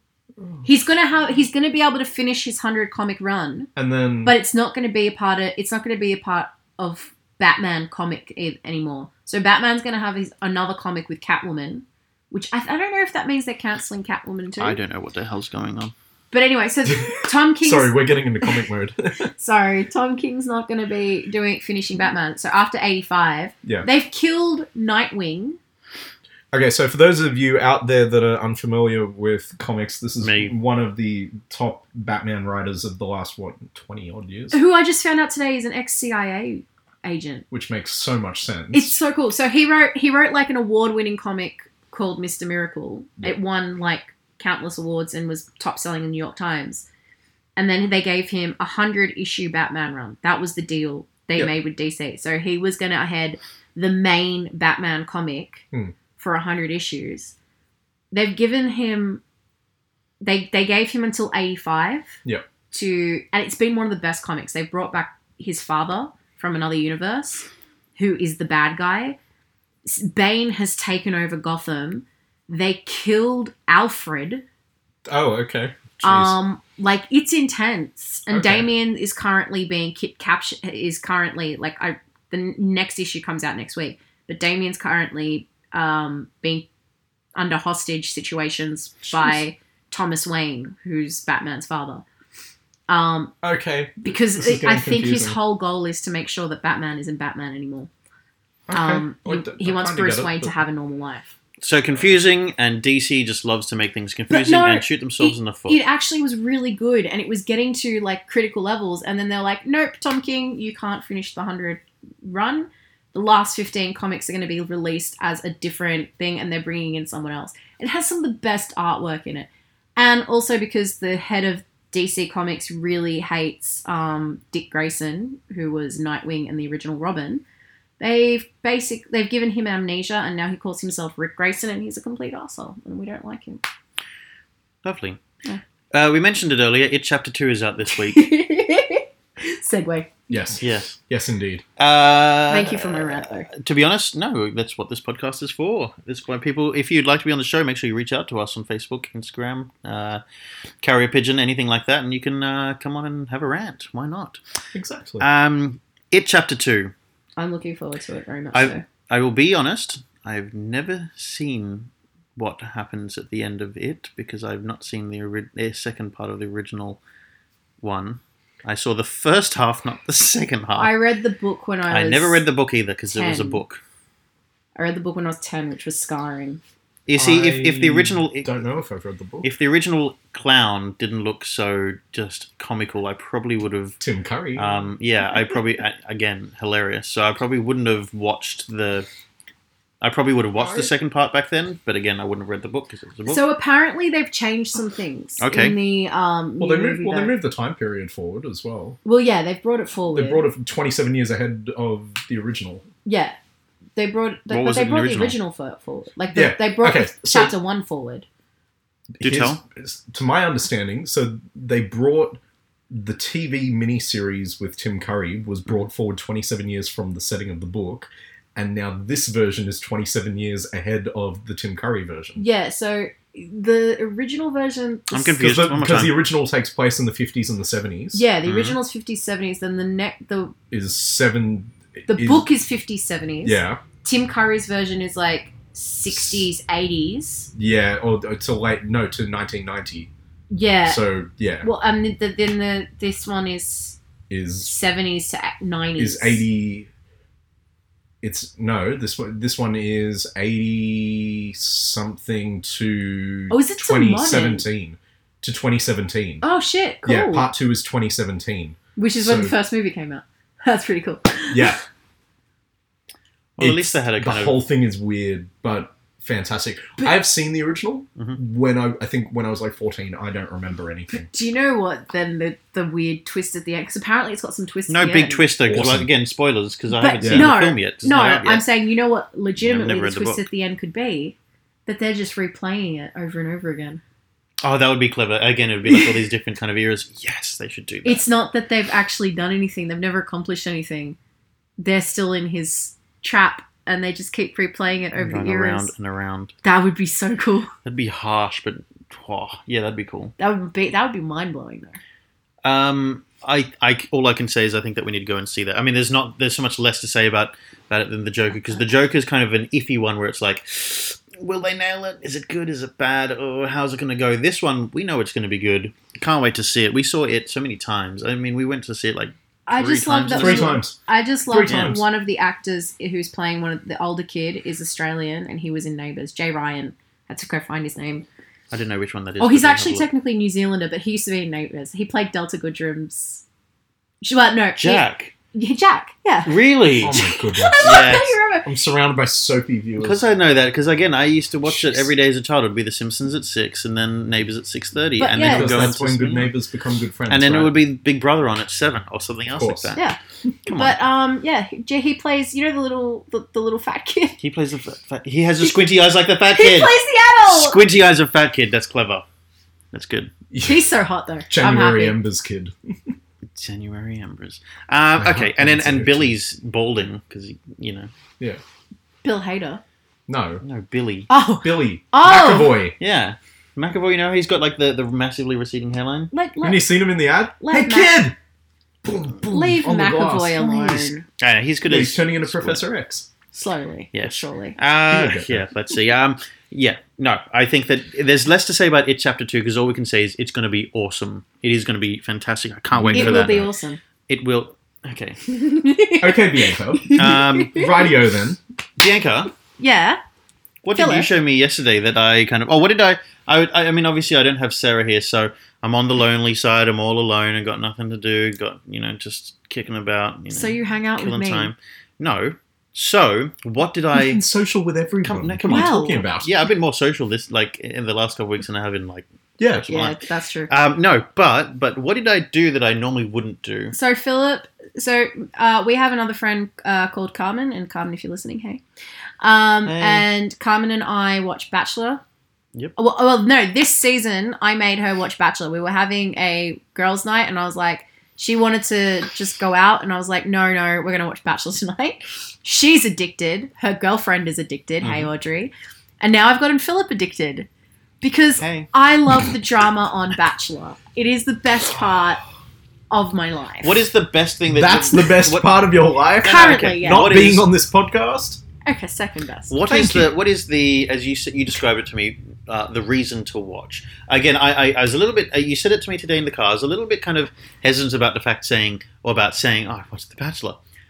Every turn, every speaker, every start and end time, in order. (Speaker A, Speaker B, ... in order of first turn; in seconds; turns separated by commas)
Speaker A: 0.4-0.6, Speaker B: 0.6-3.7, Speaker A: 3.8-4.3, Speaker B: 4.2-14.8, Speaker C: 14.6-15.9, Speaker B: 16.3-18.6, Speaker A: 16.9-19.3, Speaker B: 19.3-25.6, Speaker A: 26.5-34.6, Speaker C: 30.2-30.5, Speaker B: 34.5-37.4, Speaker A: 37.5-38.9, Speaker B: 38.7-46.9, Speaker B: 47.5-55.6, Speaker B: 56.2-57.3, Speaker B: 58.1-59.2, Speaker B: 60.2-62.1, Speaker B: 62.7-69.2, Speaker B: 69.8-74.4, Speaker A: 75.1-76.3, Speaker B: 76.0-86.7, Speaker A: 78.3-78.7, Speaker B: 87.3-92.0, Speaker B: 92.9-93.3, Speaker A: 93.4-95.4, Speaker B: 94.0-97.9, Speaker A: 98.7-100.5, Speaker B: 98.7-101.3, Speaker C: 101.6-105.8, Speaker B: 104.3-127.4, Speaker B: 128.0-133.6, Speaker C: 134.8-135.2, Speaker C: 135.9-138.2, Speaker B: 137.9-140.1, Speaker A: 140.3-141.6, Speaker C: 140.6-140.9, Speaker C: 141.8-150.2, Speaker B: 142.5-143.5, Speaker C: 150.8-154.4, Speaker A: 154.7-155.2, Speaker C: 155.2-156.9, Speaker B: 157.4-158.8, Speaker C: 158.5-167.0, Speaker C: 167.8-170.9, Speaker B: 170.7-172.4, Speaker C: 171.9-173.8, Speaker B: 173.1-173.6, Speaker B: 174.8-176.6, Speaker C: 177.1-178.5, Speaker A: 177.1-179.5, Speaker C: 179.4-184.0, Speaker A: 184.0-184.8, Speaker C: 184.5-189.1, Speaker C: 190.0-193.4, Speaker A: 190.6-190.9, Speaker B: 193.3-197.3, Speaker C: 195.4-195.8, Speaker A: 196.6-199.0, Speaker B: 199.0-200.5, Speaker A: 200.1-202.8, Speaker B: 203.0-203.4, Speaker B: 203.9-208.2, Speaker C: 204.5-205.4, Speaker A: 206.3-207.5, Speaker A: 209.1-212.4, Speaker C: 209.2-209.6, Speaker A: 212.9-222.4, Speaker B: 222.4-225.4, Speaker C: 225.1-226.2, Speaker A: 225.4-228.3, Speaker B: 228.1-230.5, Speaker C: 228.4-228.8, Speaker A: 230.7-232.5, Speaker B: 232.1-237.5, Speaker A: 233.4-233.8, Speaker A: 236.1-236.4, Speaker A: 237.5-240.1, Speaker B: 240.5-241.0, Speaker A: 240.8-241.7, Speaker B: 241.6-244.0, Speaker A: 244.3-244.7, Speaker B: 244.6-246.4, Speaker A: 246.0-246.9, Speaker A: 248.2-256.4, Speaker B: 253.5-254.7, Speaker B: 256.4-257.5, Speaker A: 257.0-259.5, Speaker B: 259.0-261.8, Speaker A: 261.5-261.8, Speaker C: 263.6-264.6, Speaker A: 263.6-271.3, Speaker B: 271.1-275.5, Speaker C: 274.9-278.6, Speaker A: 275.6-276.1, Speaker B: 276.9-284.0, Speaker A: 277.2-277.5, Speaker C: 279.6-280.4, Speaker C: 284.6-288.2, Speaker B: 288.0-291.2, Speaker B: 291.8-295.9, Speaker C: 295.2-296.5, Speaker B: 296.6-297.7, Speaker C: 297.8-300.3, Speaker B: 300.4-302.0, Speaker C: 302.6-320.8, Speaker B: 319.7-328.2, Speaker A: 320.3-320.9, Speaker A: 321.5-322.0, Speaker C: 321.7-321.9, Speaker C: 328.7-330.1, Speaker B: 329.4-333.4, Speaker B: 334.2-338.7, Speaker C: 334.8-335.3, Speaker C: 336.4-337.2, Speaker A: 337.0-340.2, Speaker C: 337.8-338.4, Speaker C: 340.0-346.5, Speaker A: 341.7-342.1, Speaker B: 345.2-345.9, Speaker A: 345.3-347.8, Speaker C: 347.3-350.0, Speaker A: 349.5-349.9, Speaker C: 350.6-351.0, Speaker B: 350.7-354.4, Speaker C: 354.4-359.2, Speaker B: 356.5-357.8, Speaker C: 359.9-360.3, Speaker A: 360.5-360.9, Speaker B: 360.6-362.2, Speaker A: 361.5-363.1, Speaker C: 363.5-368.1, Speaker A: 365.2-366.3, Speaker B: 369.2-369.8, Speaker A: 370.3-370.6, Speaker C: 370.6-371.3, Speaker B: 371.3-372.8, Speaker A: 371.6-372.9, Speaker C: 373.0-376.3, Speaker B: 376.3-376.9, Speaker A: 376.6-378.4, Speaker B: 377.6-378.2, Speaker A: 379.0-381.1, Speaker B: 379.5-381.2, Speaker C: 381.4-382.8, Speaker A: 381.9-383.3, Speaker B: 383.5-384.8, Speaker C: 384.1-393.7, Speaker A: 385.1-385.7, Speaker A: 392.9-393.7, Speaker B: 393.1-394.0, Speaker C: 394.3-395.4, Speaker B: 395.5-398.1, Speaker A: 396.2-398.6, Speaker C: 397.1-397.9, Speaker C: 399.0-399.5, Speaker B: 399.8-400.2, Speaker C: 400.8-414.4, Speaker B: 400.9-401.3, Speaker B: 410.5-411.7, Speaker A: 414.1-416.5, Speaker C: 415.2-423.9, Speaker B: 415.7-416.2, Speaker A: 419.6-419.9, Speaker B: 419.9-420.7, Speaker B: 423.9-428.8, Speaker B: 429.4-432.2, Speaker C: 429.8-430.2, Speaker B: 432.9-447.7, Speaker C: 445.0-445.3, Speaker B: 448.2-452.4, Speaker C: 448.6-448.9, Speaker B: 453.1-454.0, Speaker C: 453.8-457.7, Speaker A: 454.7-458.6, Speaker B: 456.4-457.5, Speaker B: 458.8-459.8, Speaker C: 459.7-470.8, Speaker A: 459.9-460.3